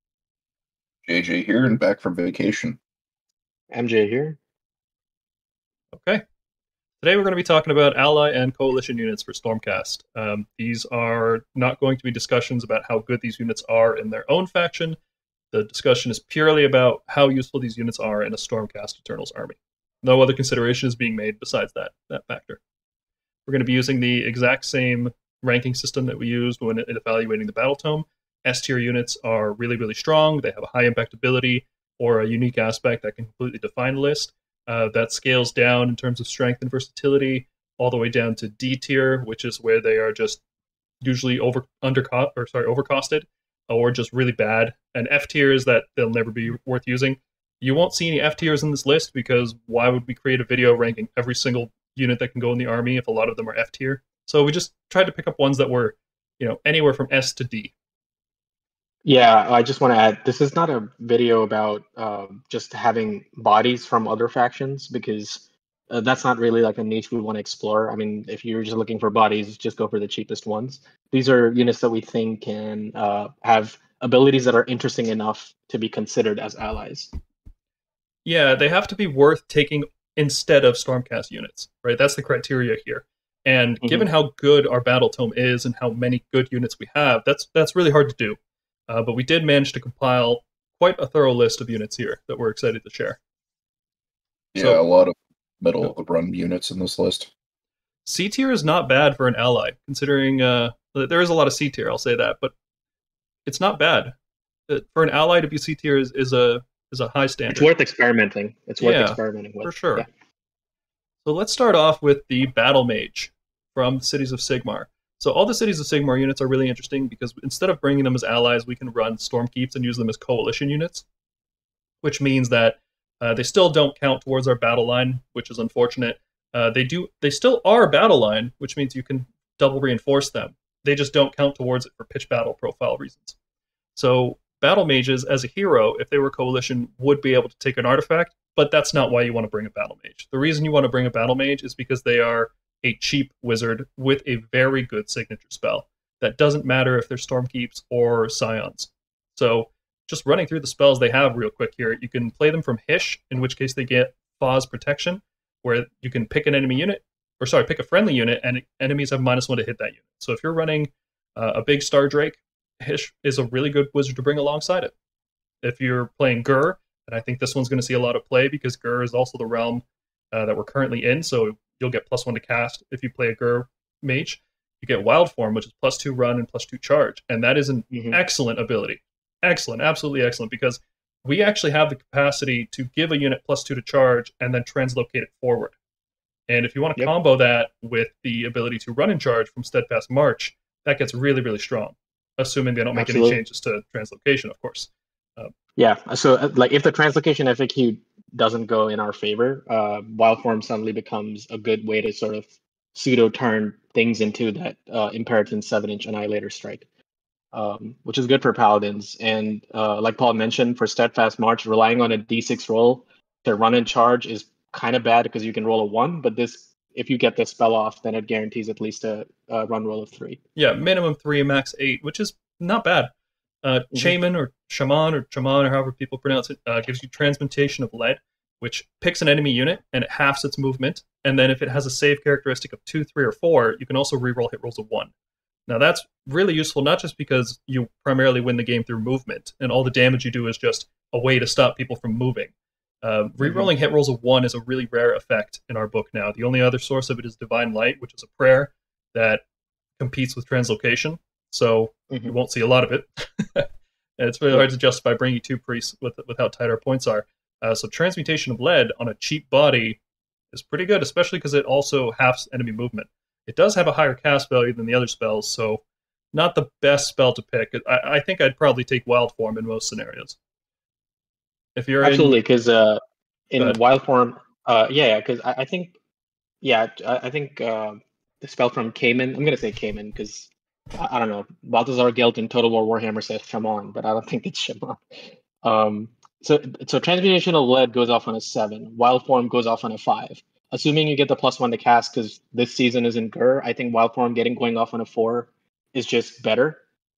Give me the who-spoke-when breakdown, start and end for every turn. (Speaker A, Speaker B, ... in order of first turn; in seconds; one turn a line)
Speaker A: 1.1-2.8
Speaker B: 3.7-4.4
Speaker C: 5.9-6.2
Speaker C: 7.0-15.0
Speaker C: 15.5-22.6
Speaker C: 23.5-40.4
Speaker C: 41.0-57.7
Speaker B: 59.0-77.1
Speaker C: 78.2-93.2
Speaker B: 83.8-84.1
Speaker A: 94.5-97.3
Speaker C: 98.0-102.5
Speaker C: 103.5-104.1
Speaker C: 104.7-107.7
Speaker B: 107.5-110.1
Speaker C: 108.8-110.1
Speaker C: 111.2-121.0
Speaker C: 122.0-133.3
Speaker C: 133.9-164.9
Speaker C: 165.6-185.7
Speaker B: 177.9-178.2
Speaker C: 186.5-195.5
Speaker B: 192.9-193.4
Speaker B: 195.8-206.8
Speaker B: 207.5-220.4
Speaker C: 220.6-223.1
Speaker C: 223.6-235.1
Speaker C: 235.7-249.4
Speaker B: 243.4-243.7
Speaker C: 250.0-260.0
Speaker C: 260.5-265.8
Speaker C: 266.3-270.4
Speaker C: 271.8-272.4
Speaker B: 272.0-275.9
Speaker B: 276.6-296.8